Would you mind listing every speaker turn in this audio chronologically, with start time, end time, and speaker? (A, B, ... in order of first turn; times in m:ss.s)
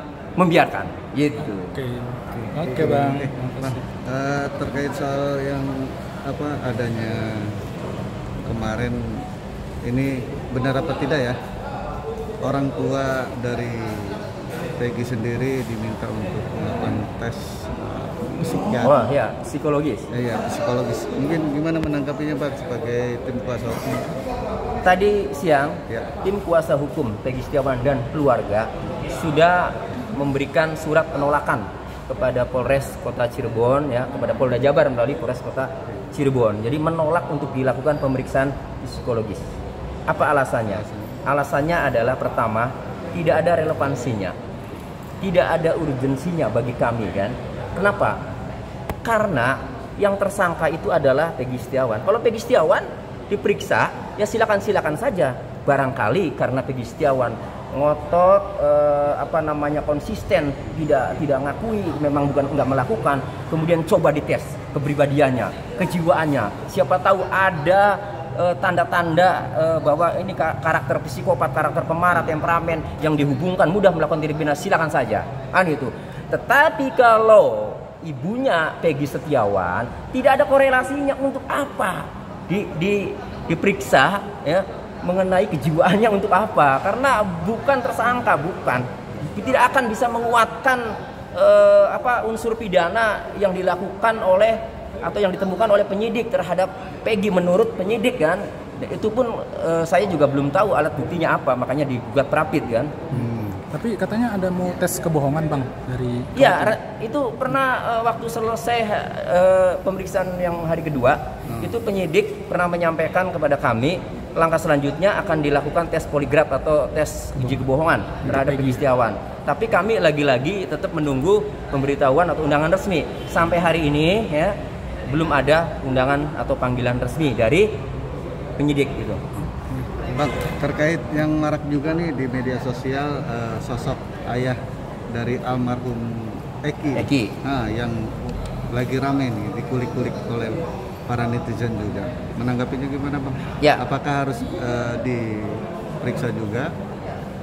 0:00.4-0:01.8 A
0:01.7-0:03.8 B
0:02.3-0:07.6 C
0:08.4-0:09.2 C
0:09.8-0:11.4 C
0:12.4-0:14.2 C
0:14.8-0:19.0 C
0:18.8-0:20.1 A
0:20.1-0:24.2 C
0:24.8-0:39.5 A
0:40.1-0:44.4 A
0:40.7-0:41.2 C
0:45.2-0:48.2 A
0:49.0-1:42.9 A
1:43.1-1:43.6 C
1:43.7-1:46.8 B
1:46.4-2:04.6 A
1:51.5-1:51.7 C
1:58.3-1:58.7 B
2:05.1-2:07.7 A
2:08.6-2:09.3 A
2:09.7-2:14.6 C
2:15.1-2:18.1 C
2:17.0-2:17.3 A
2:18.7-2:26.7 C